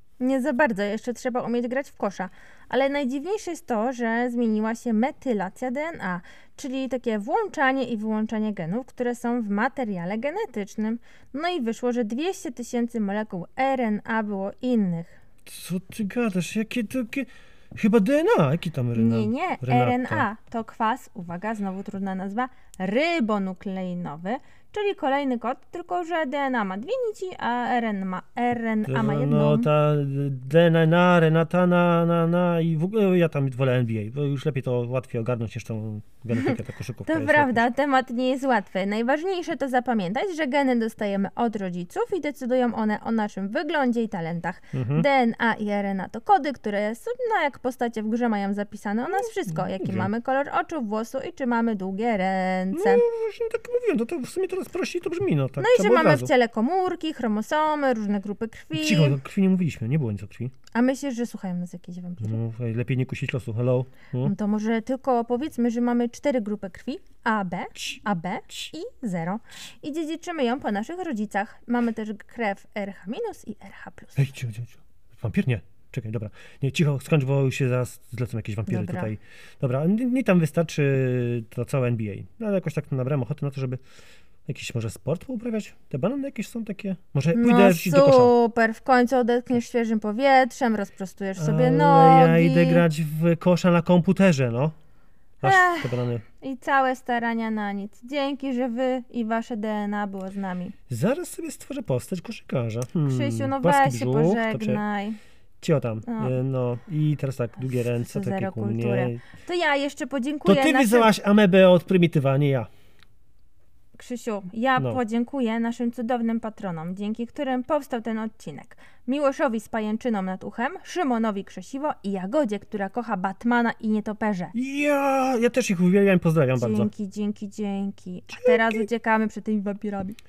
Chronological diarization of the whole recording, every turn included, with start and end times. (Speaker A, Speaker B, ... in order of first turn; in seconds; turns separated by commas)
Speaker A: 0.2-15.2, Speaker B: 15.4-20.3, Speaker A: 18.9-29.7, Speaker B: 28.9-37.7, Speaker A: 37.0-53.0, Speaker B: 44.7-45.1, Speaker B: 49.5-50.1, Speaker B: 52.7-56.3, Speaker A: 55.6-59.2, Speaker B: 58.7-60.5, Speaker A: 60.7-62.4, Speaker B: 62.2-64.3, Speaker A: 64.2-74.3, Speaker B: 74.2-83.8, Speaker A: 78.7-79.1, Speaker B: 84.5-88.3, Speaker A: 87.3-92.8, Speaker B: 91.3-94.7, Speaker B: 95.4-96.2, Speaker A: 95.4-100.7, Speaker B: 100.9-104.8, Speaker A: 103.0-105.2, Speaker B: 105.6-109.2, Speaker A: 106.1-106.3, Speaker A: 108.0-111.1, Speaker B: 110.4-112.7, Speaker A: 114.0-124.5, Speaker B: 124.5-126.9, Speaker A: 126.5-130.2, Speaker B: 128.3-128.8